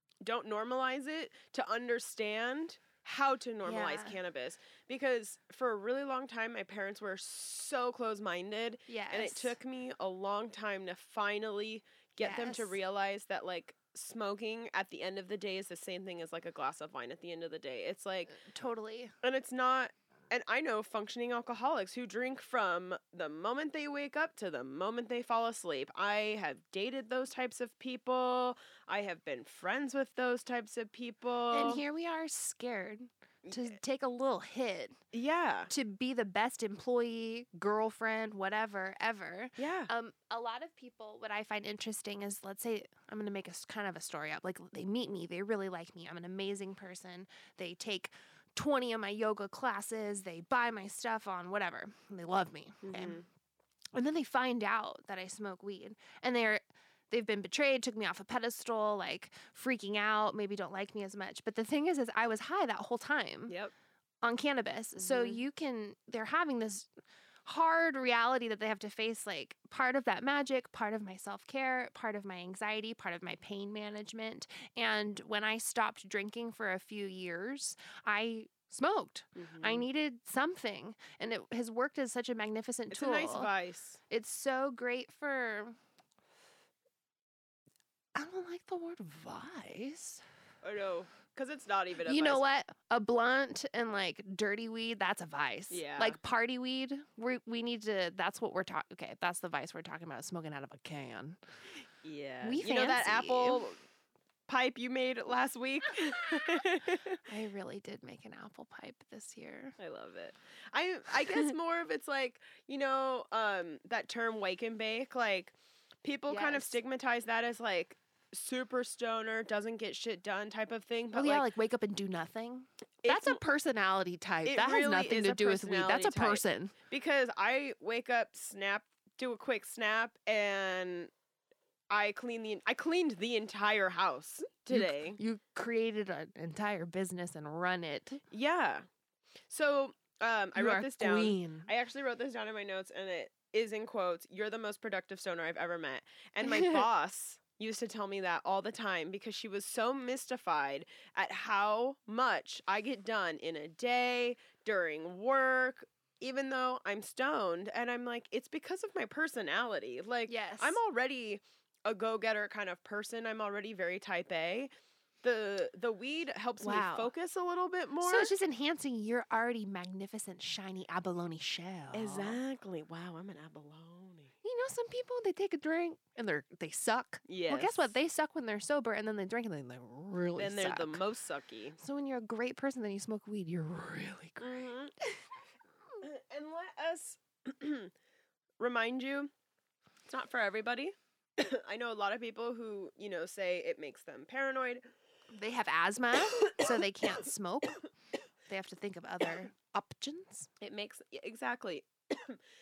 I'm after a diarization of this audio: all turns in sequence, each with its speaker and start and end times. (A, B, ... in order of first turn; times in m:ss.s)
0:00.2-0:18.3 A
0:03.6-0:04.2 B
0:08.9-0:09.6 B
0:12.2-0:12.8 B
0:18.3-0:19.1 B
0:19.2-0:31.8 A
0:31.5-0:35.0 B
0:33.4-0:33.7 A
0:35.1-0:35.7 A
0:35.7-0:53.2 B
0:39.6-0:39.9 A
0:52.8-0:53.2 A
0:53.9-1:03.6 B
1:03.5-1:03.7 A
1:04.2-1:06.9 B
1:05.0-1:05.4 A
1:07.4-1:23.5 B
1:19.4-1:19.9 A
1:22.9-1:24.0 A
1:24.1-1:25.8 B
1:28.2-1:30.2 B
1:30.6-1:32.4 A
1:32.0-1:41.4 B
1:35.7-1:36.2 A
1:42.0-1:43.8 A
1:42.4-1:43.6 B
1:44.5-1:47.2 A
1:47.2-1:49.8 B
1:49.8-2:01.5 A
1:56.3-1:56.8 B
2:01.1-2:06.7 B
2:03.0-2:03.4 A
2:04.4-2:11.1 A
2:11.9-2:15.2 A
2:14.7-2:18.2 B
2:18.3-2:18.8 A
2:19.5-2:44.7 A
2:20.6-2:21.7 B
2:26.4-2:26.8 B
2:40.3-2:40.8 B
2:45.2-2:48.3 A
2:46.6-2:47.1 B
2:48.0-2:52.4 B
2:51.9-2:54.3 A
2:54.4-3:01.0 B
2:57.3-2:57.9 A
3:00.4-3:01.8 A
3:01.8-3:05.3 B
3:04.4-3:04.9 A
3:06.0-3:07.9 A
3:08.6-3:09.3 A
3:10.1-3:14.8 A
3:15.3-3:17.8 B
3:16.4-3:16.8 A
3:18.5-3:20.5 B
3:20.6-3:22.4 A